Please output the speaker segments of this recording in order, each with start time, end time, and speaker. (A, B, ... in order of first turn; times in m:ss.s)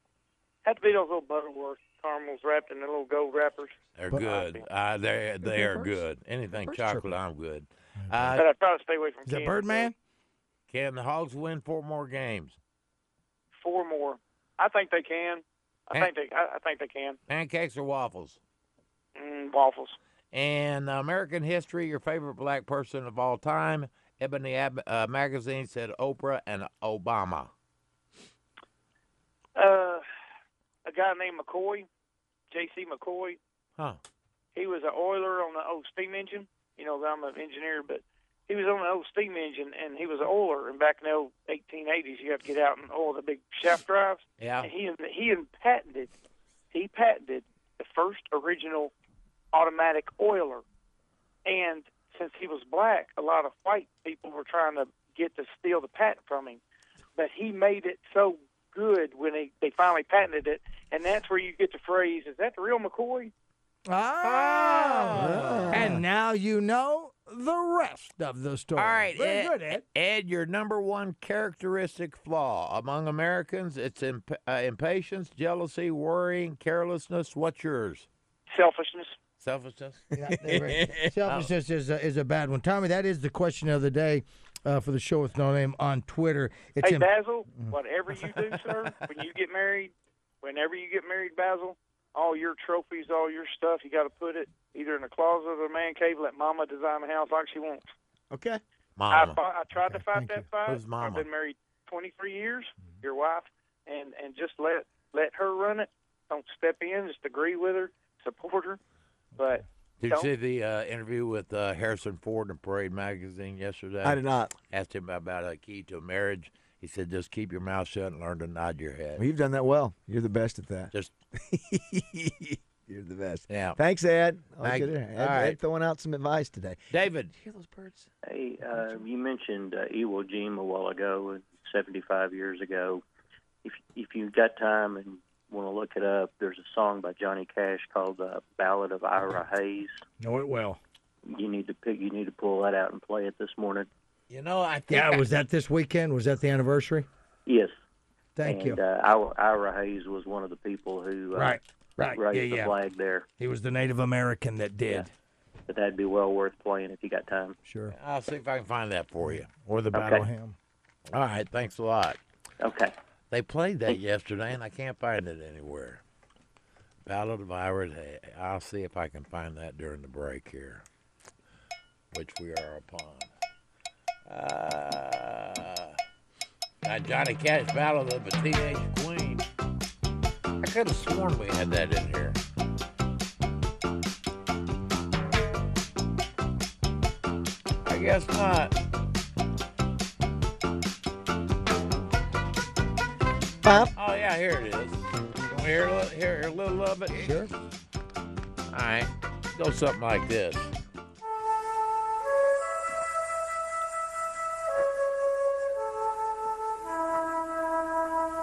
0:00.6-0:04.6 A
0:04.0-0:08.4 B
0:05.4-0:05.9 C
0:06.7-0:07.1 C
0:08.3-0:09.9 A
0:09.2-0:09.9 C
0:10.7-0:12.6 B
0:13.6-0:17.2 A
0:17.3-0:18.4 B
0:19.2-0:20.0 A
0:20.3-0:27.5 B
0:29.6-0:30.0 A
0:30.8-0:31.9 A
0:32.5-0:33.4 A
0:34.5-0:46.1 A
0:44.4-0:44.7 B
0:46.7-0:48.9 A
0:49.5-0:50.6 A
0:51.4-0:56.6 A
0:57.2-1:03.3 A
1:03.9-1:09.8 C
1:04.2-1:05.9 B
1:05.1-1:06.0 D
1:08.8-1:18.1 B
1:18.5-1:19.1 A
1:19.4-1:20.1 B
1:20.2-1:27.7 C
1:20.4-1:21.1 D
1:26.8-1:37.8 A
1:38.3-1:38.6 D
1:39.0-1:39.4 B
1:39.1-1:48.8 A
1:39.8-1:40.4 C
1:40.6-1:41.3 B
1:49.4-1:50.3 A
1:50.0-1:59.2 B
1:54.0-1:54.5 D
1:59.2-2:06.8 D
2:03.5-2:03.8 B
2:04.6-2:05.6 B
2:06.9-2:07.3 B
2:07.4-2:07.9 D
2:08.2-2:13.0 E
2:13.6-2:20.0 E
2:20.2-2:20.8 C
2:21.3-2:23.9 E
2:24.3-2:25.3 B
2:24.9-2:27.1 C
2:27.4-2:27.7 E
2:28.4-2:28.8 C
2:28.4-2:31.6 E
2:31.3-2:32.7 C
2:32.1-2:33.2 E
2:33.4-2:35.1 C
2:35.7-2:37.6 E
2:37.6-2:37.9 C
2:37.9-2:40.3 B
2:39.9-2:40.5 C
2:41.1-2:42.2 B
2:42.6-2:42.9 E
2:43.3-2:46.0 B
2:47.0-2:50.8 B
2:52.1-2:53.3 B
2:54.3-2:56.0 B
2:56.8-2:59.4 B
3:00.6-3:02.4 B
3:07.8-3:08.7 B
3:13.6-3:13.9 D
3:13.9-3:17.5 B
3:17.2-3:17.5 C
3:18.7-3:20.7 B